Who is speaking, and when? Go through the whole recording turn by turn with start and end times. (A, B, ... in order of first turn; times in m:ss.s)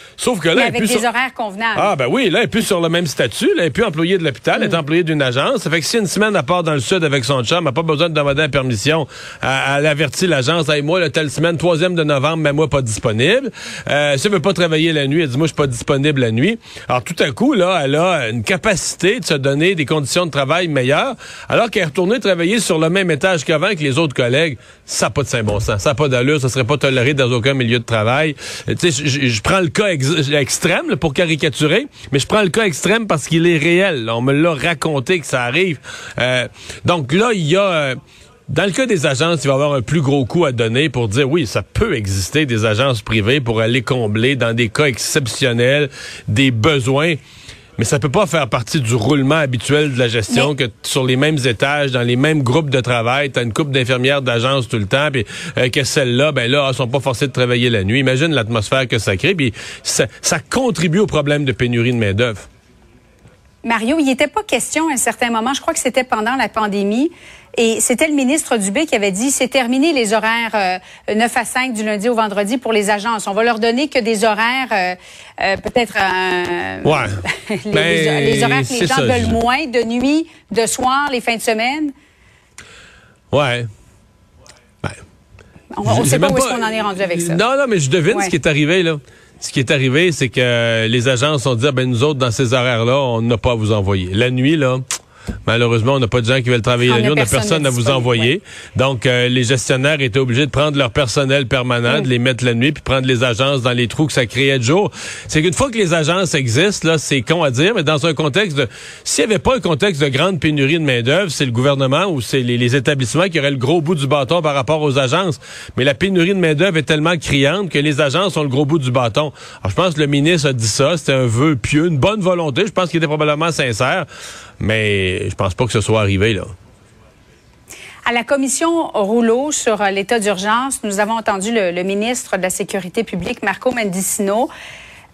0:00.2-0:01.0 A
0:00.6-0:01.9 B
0:01.8-0:38.0 A
0:38.5-0:47.2 A
0:47.8-1:02.5 A
1:03.6-1:21.9 B
1:16.8-1:17.1 A
1:17.7-1:19.4 A
1:23.3-1:23.7 A
1:25.7-1:27.4 B
1:25.9-1:34.8 A
1:35.5-2:04.1 A
1:36.8-1:38.3 B
2:04.6-2:06.5 A
2:08.1-2:14.5 B